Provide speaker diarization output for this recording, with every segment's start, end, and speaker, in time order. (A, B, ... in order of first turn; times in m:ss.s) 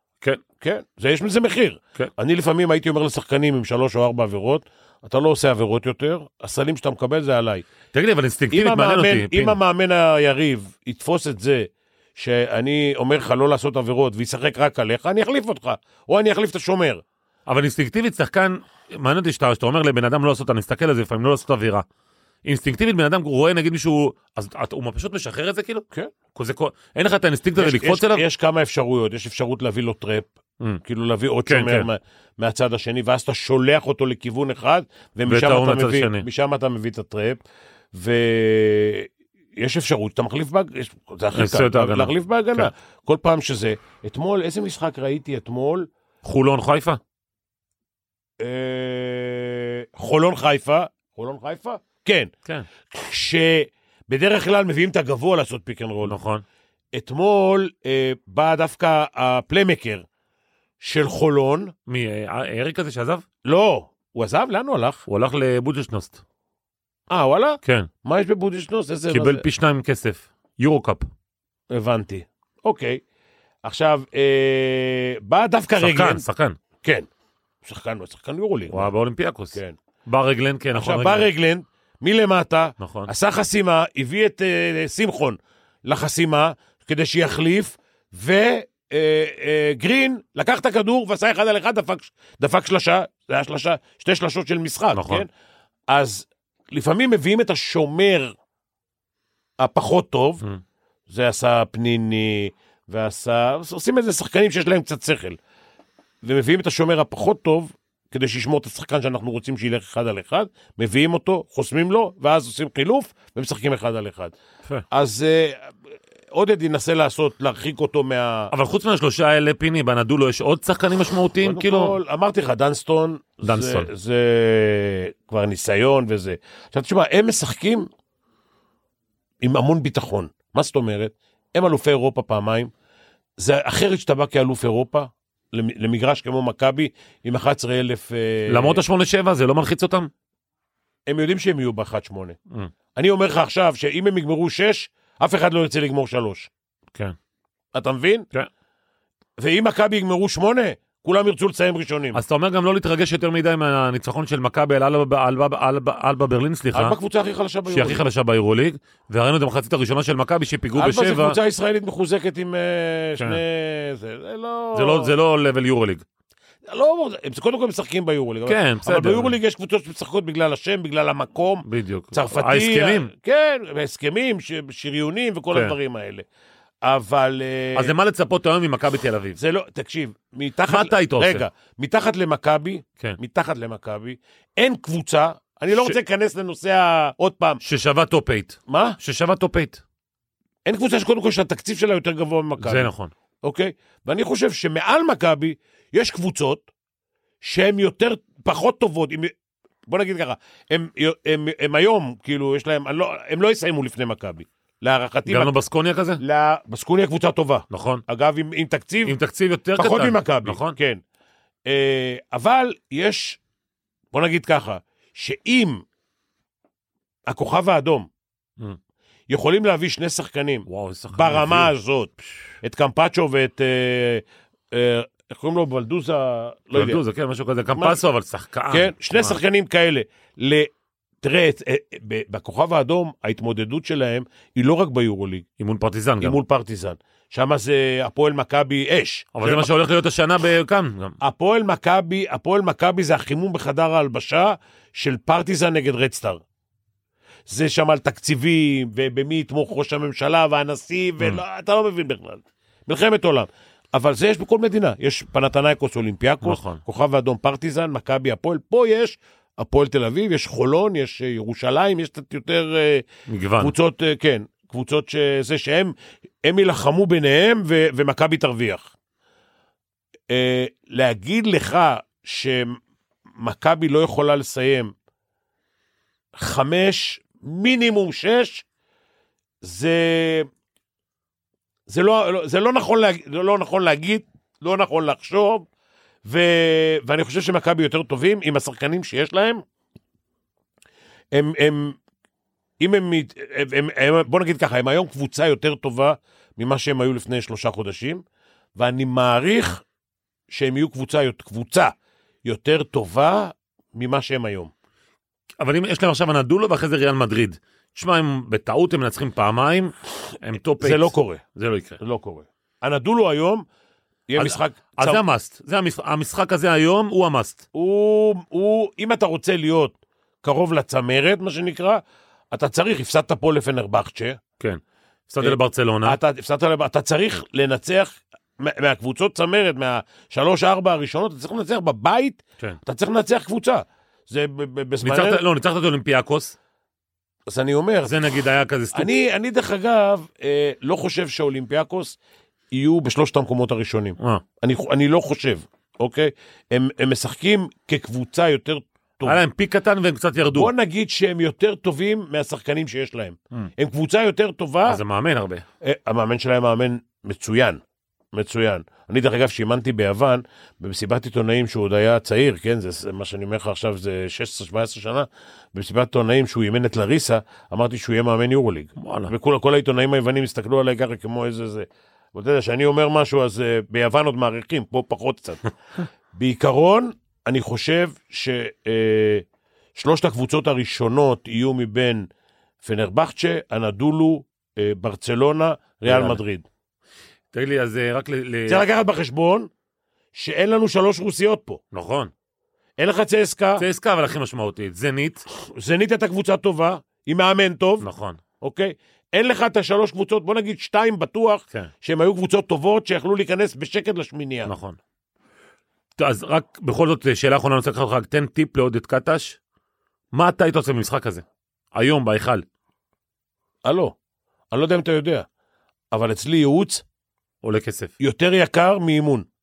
0:00.6-0:07.7 A
0:07.9-0:09.6 B
0:08.5-0:17.0 A
0:17.5-0:21.8 B
0:22.4-0:28.2 B
0:27.6-0:30.3 A
0:30.8-0:37.4 A
0:31.5-0:31.9 B
0:35.3-0:36.3 B
0:37.9-0:45.9 A
0:41.3-0:42.7 B
0:46.2-0:47.0 B
0:48.4-0:52.3 A
0:52.9-0:56.2 A
0:56.0-0:56.4 B
0:56.9-1:00.0 A
1:00.8-1:01.7 A
1:01.9-1:03.2 B
1:03.4-1:05.0 A
1:05.1-1:06.2 B
1:07.1-1:09.4 A
1:09.1-1:11.1 B
1:11.7-1:13.0 A
1:13.6-1:16.2 A
1:15.8-1:16.6 B
1:16.8-1:17.1 A
1:17.6-1:18.9 A
1:18.7-1:21.3 B
1:20.8-1:35.3 A
1:22.8-1:23.1 B
1:34.9-1:35.3 B
1:35.9-1:38.4 A
1:39.6-1:40.4 A
1:41.1-1:45.4 A
1:46.2-1:54.3 A
1:54.9-1:55.7 A
1:56.3-1:58.5 A
1:58.5-2:02.0 B
2:01.4-2:07.9 A
2:03.4-2:03.9 B
2:09.4-2:12.7 A
2:13.4-2:18.8 A
2:18.5-2:20.1 B
2:21.1-2:22.4 A
2:23.0-2:26.5 A
2:27.7-2:28.3 A
2:29.4-2:32.2 A
2:32.1-2:37.0 B
2:36.7-2:38.0 A
2:37.7-2:41.4 B
2:40.8-2:45.1 A
2:44.7-2:46.0 B
2:46.7-2:56.3 A
2:48.5-2:49.4 B
2:51.6-2:53.1 B
2:56.8-2:57.9 A
2:57.8-2:59.4 B
2:59.4-3:07.6 A
3:00.7-3:01.4 B
3:05.7-3:06.0 B
3:07.6-3:09.8 B
3:08.7-3:09.0 A
3:10.7-3:12.9 A
3:12.6-3:13.1 B
3:13.4-3:16.7 A
3:17.4-3:19.3 A
3:19.9-3:25.5 A
3:25.3-3:26.2 B
3:26.2-3:29.2 A
3:27.7-3:28.0 B
3:29.0-3:30.8 B
3:29.8-3:31.0 A
3:31.7-3:33.4 A
3:34.1-3:35.8 A
3:37.3-3:38.1 A
3:39.3-3:47.0 A
3:40.7-3:41.7 B
3:46.7-3:49.4 B
3:48.7-3:50.7 A
3:51.2-3:55.4 A
3:55.6-3:56.4 B
3:56.2-3:59.7 A
3:59.4-4:01.2 B
4:01.2-4:06.4 A
4:07.5-4:23.0 A
4:16.4-4:16.8 B
4:23.3-4:23.7 B
4:23.6-4:28.9 A
4:30.3-4:32.8 A
4:33.4-4:34.9 A
4:36.4-4:38.6 A
4:39.6-4:40.5 A
4:41.9-4:45.7 A
4:46.2-4:49.6 A
4:51.3-4:52.0 A
4:52.8-4:58.2 A
4:58.8-4:59.8 A
5:00.5-5:01.9 A
5:02.4-5:04.7 A
5:05.6-5:12.0 B
5:10.8-5:11.4 A
5:12.0-5:13.6 A
5:14.3-5:15.2 A
5:14.4-5:17.6 B
5:17.8-5:24.4 A
5:24.6-5:26.2 B
5:25.4-5:35.4 A
5:35.0-5:36.6 B
5:37.5-5:38.2 A
5:38.0-5:39.1 B
5:38.9-5:42.2 A
5:42.7-5:49.4 A
5:49.2-5:50.7 B
5:50.5-5:55.0 A
5:54.8-5:55.6 B
5:55.8-5:57.8 A
5:58.3-6:19.4 A
6:09.0-6:09.3 B
6:20.0-6:22.3 A
6:22.8-6:26.7 A
6:26.1-6:26.4 B
6:27.5-6:28.8 B
6:28.7-6:29.7 A
6:30.3-6:31.8 A
6:31.9-6:32.3 B
6:33.0-6:33.9 A
6:33.8-6:35.4 B
6:35.7-6:38.1 A
6:38.0-6:38.4 B
6:38.6-6:44.7 A
6:44.7-6:45.0 B
6:46.2-6:49.6 B
6:50.3-6:51.4 B
6:52.0-6:52.6 B
6:53.8-6:54.2 A
6:54.7-6:55.5 A
6:56.1-6:57.0 A
6:57.6-6:58.1 B
6:58.2-6:59.5 A